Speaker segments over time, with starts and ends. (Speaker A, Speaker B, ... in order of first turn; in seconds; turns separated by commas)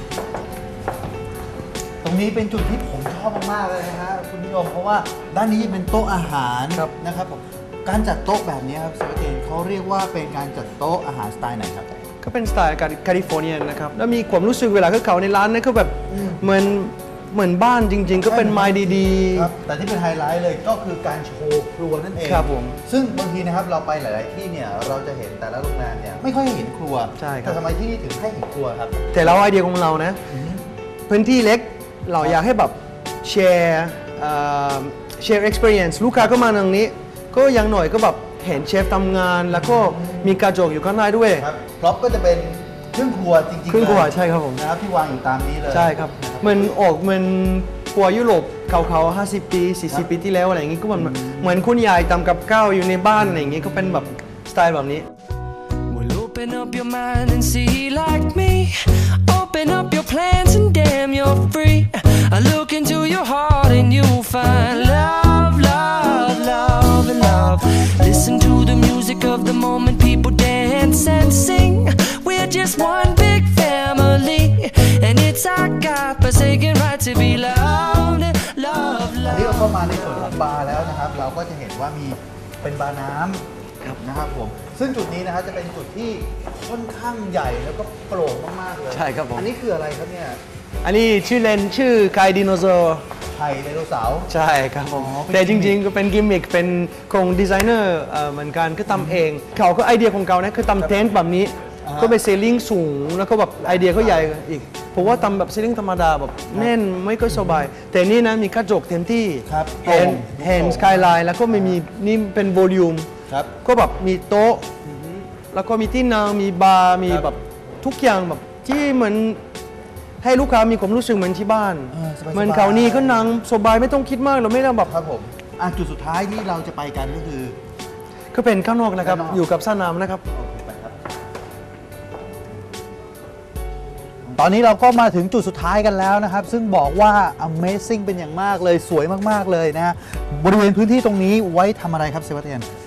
Speaker A: 2.0-11.9, Speaker B: 12.2-19.5, Speaker A: 16.1-16.4, Speaker A: 18.2-29.3, Speaker B: 22.2-22.8, Speaker B: 27.2-27.6, Speaker B: 29.1-30.2, Speaker A: 30.3-30.6, Speaker B: 31.1-41.5, Speaker A: 39.5-40.4, Speaker A: 41.4-46.8, Speaker B: 43.7-44.6, Speaker B: 45.7-55.1, Speaker A: 51.0-51.6, Speaker A: 53.1-54.1, Speaker C: 55.9-79.8, Speaker A: 79.2-90.4, Speaker B: 88.9-89.5, Speaker B: 90.8-93.0, Speaker A: 93.3-94.3, Speaker B: 94.3-114.7, Speaker A: 94.9-95.8, Speaker A: 98.9-99.2, Speaker A: 101.8-102.2, Speaker A: 107.3-107.7, Speaker A: 109.5-111.8, Speaker A: 114.8-115.3, Speaker B: 115.5-119.4, Speaker B: 120.2-124.9, Speaker A: 121.9-123.4, Speaker A: 124.8-127.6, Speaker B: 128.3-130.2, Speaker A: 129.0-129.4, Speaker A: 130.3-130.9, Speaker A: 134.2-142.7